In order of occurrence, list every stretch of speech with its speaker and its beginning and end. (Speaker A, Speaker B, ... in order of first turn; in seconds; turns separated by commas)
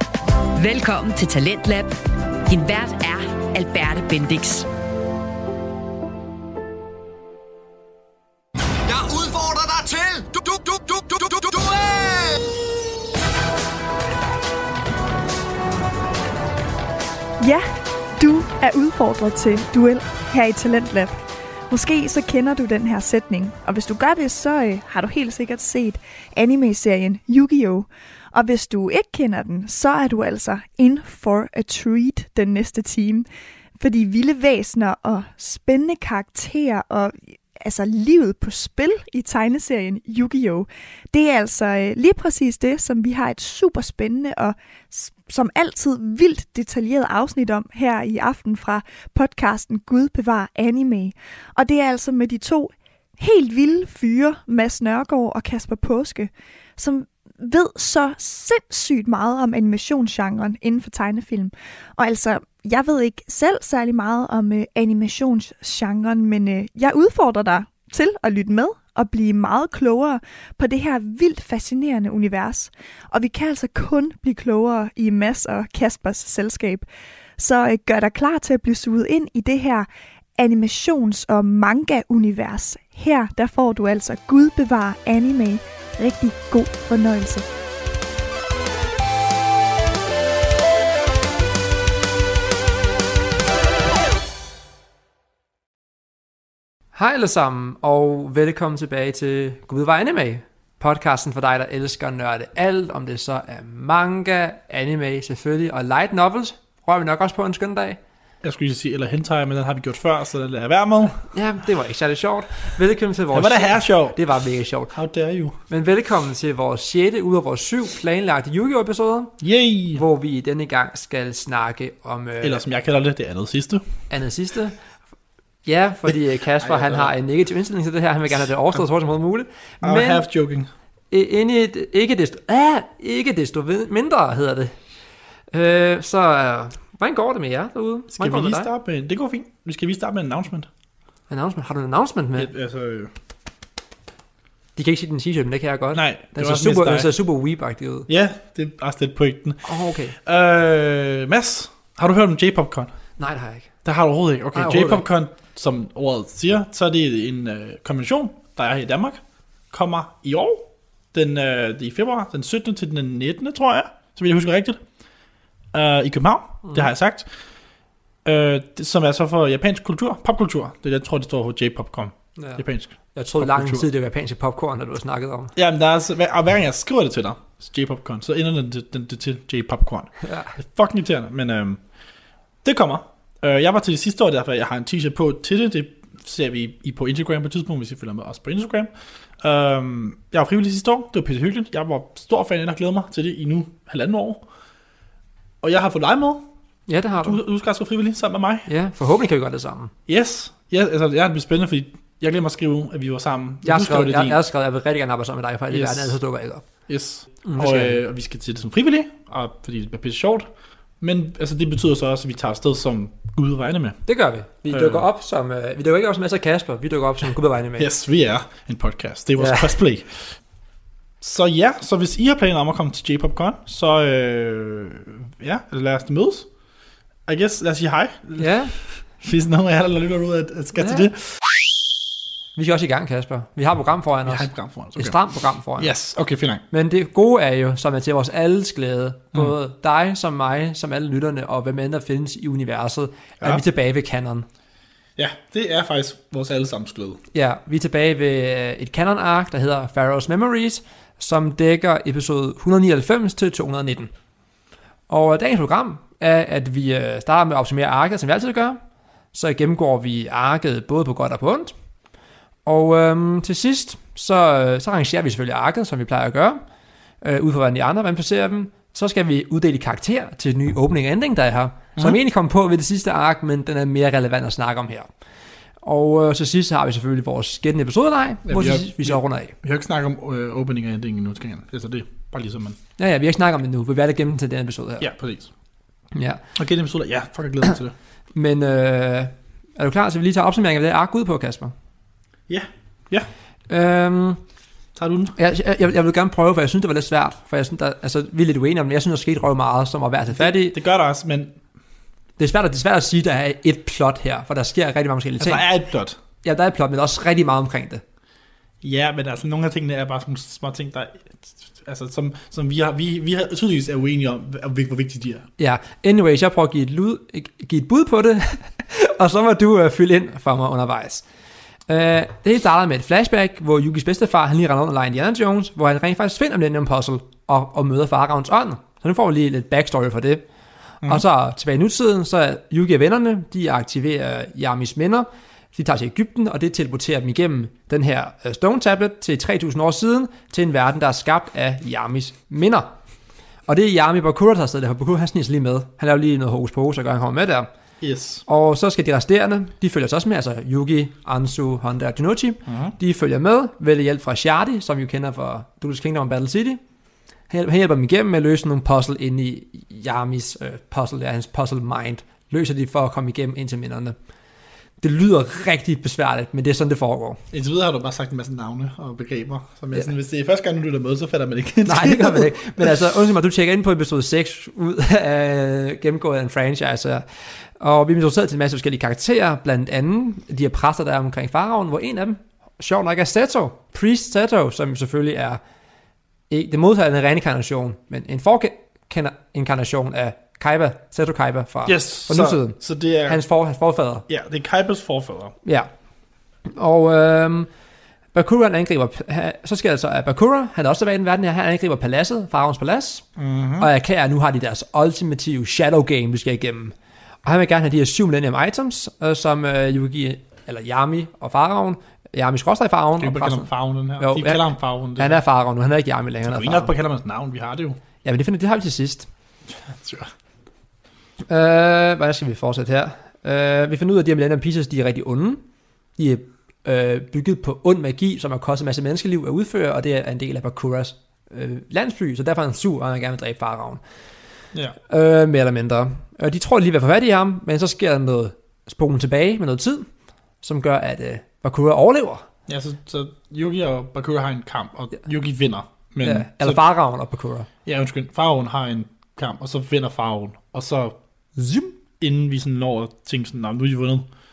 Speaker A: 0.6-4.7, Speaker B: 8.9-12.4, Speaker C: 17.4-17.7, Speaker C: 18.2-33.3, Speaker C: 33.8-76.9, Speaker C: 77.4-87.5, Speaker D: 96.9-108.0, Speaker E: 108.4-111.3, Speaker D: 111.3-114.9, Speaker E: 113.3-114.2, Speaker E: 114.9-115.6, Speaker D: 115.7-119.4, Speaker E: 119.4-120.0, Speaker D: 119.9-122.6, Speaker E: 122.4-123.8, Speaker D: 124.1-124.8, Speaker D: 125.6-130.2, Speaker E: 126.6-127.1, Speaker E: 129.8-130.7, Speaker D: 131.1-134.8, Speaker D: 135.5-138.7, Speaker E: 138.1-140.7, Speaker D: 141.3-142.5, Speaker E: 142.4-143.1, Speaker D: 144.8-148.1, Speaker E: 145.9-147.1, Speaker E: 148.1-152.9, Speaker D: 149.6-150.2, Speaker D: 153.2-153.7, Speaker E: 153.8-159.2, Speaker D: 154.6-155.0, Speaker E: 159.7-164.8, Speaker E: 165.7-167.3, Speaker E: 168.2-173.9, Speaker D: 172.4-172.6, Speaker D: 173.1-175.5, Speaker E: 175.6-181.8, Speaker D: 180.2-180.5, Speaker E: 182.6-188.9, Speaker E: 189.4-194.4, Speaker E: 195.6-196.5, Speaker D: 196.9-197.4, Speaker E: 197.2-198.7, Speaker D: 198.7-199.9, Speaker E: 200.1-204.4, Speaker D: 203.6-206.7, Speaker E: 205.7-206.2, Speaker E: 206.9-210.5, Speaker D: 207.4-208.0, Speaker E: 211.0-214.0, Speaker D: 214.1-217.9, Speaker E: 214.7-215.1, Speaker E: 217.8-220.3, Speaker D: 219.4-219.8, Speaker E: 221.2-226.5, Speaker E: 227.3-231.4, Speaker D: 228.4-228.7, Speaker D: 230.8-231.1, Speaker D: 232.6-235.9, Speaker E: 234.3-235.2, Speaker E: 235.8-236.6, Speaker D: 236.7-244.5, Speaker E: 245.2-247.2, Speaker D: 247.3-254.1, Speaker D: 255.1-258.8, Speaker D: 259.3-261.7, Speaker D: 262.6-266.6, Speaker D: 267.2-275.1, Speaker D: 275.8-279.5, Speaker E: 278.4-282.8, Speaker D: 283.0-285.1, Speaker E: 285.0-285.5, Speaker D: 286.1-286.4, Speaker E: 286.5-287.9, Speaker D: 288.3-291.7, Speaker E: 292.5-293.3, Speaker D: 293.7-294.4, Speaker E: 294.9-295.3, Speaker D: 295.4-300.8, Speaker E: 300.3-301.6, Speaker D: 302.4-305.6, Speaker E: 305.4-306.2, Speaker D: 306.4-308.0, Speaker E: 308.8-315.5, Speaker D: 315.6-321.2, Speaker D: 321.9-330.4, Speaker D: 331.0-342.9, Speaker D: 343.6-347.7, Speaker E: 348.0-348.4, Speaker D: 348.5-356.8, Speaker E: 352.7-352.9, Speaker D: 357.5-364.1, Speaker D: 365.0-367.4, Speaker E: 367.5-372.9, Speaker D: 371.8-385.6, Speaker D: 386.5-394.2, Speaker E: 391.9-393.4, Speaker E: 394.3-395.6, Speaker D: 395.6-395.9, Speaker D: 396.7-397.7, Speaker D: 398.3-403.2, Speaker E: 403.4-403.9, Speaker D: 403.8-414.6, Speaker E: 413.2-415.4, Speaker D: 415.1-416.9, Speaker E: 416.4-418.0, Speaker D: 418.2-419.3, Speaker E: 419.9-420.3, Speaker D: 421.4-425.6, Speaker D: 426.2-434.0, Speaker D: 435.1-440.1, Speaker D: 440.6-442.4, Speaker E: 442.7-446.8, Speaker D: 446.2-447.7, Speaker E: 447.8-451.2, Speaker D: 451.6-451.9, Speaker E: 452.2-454.2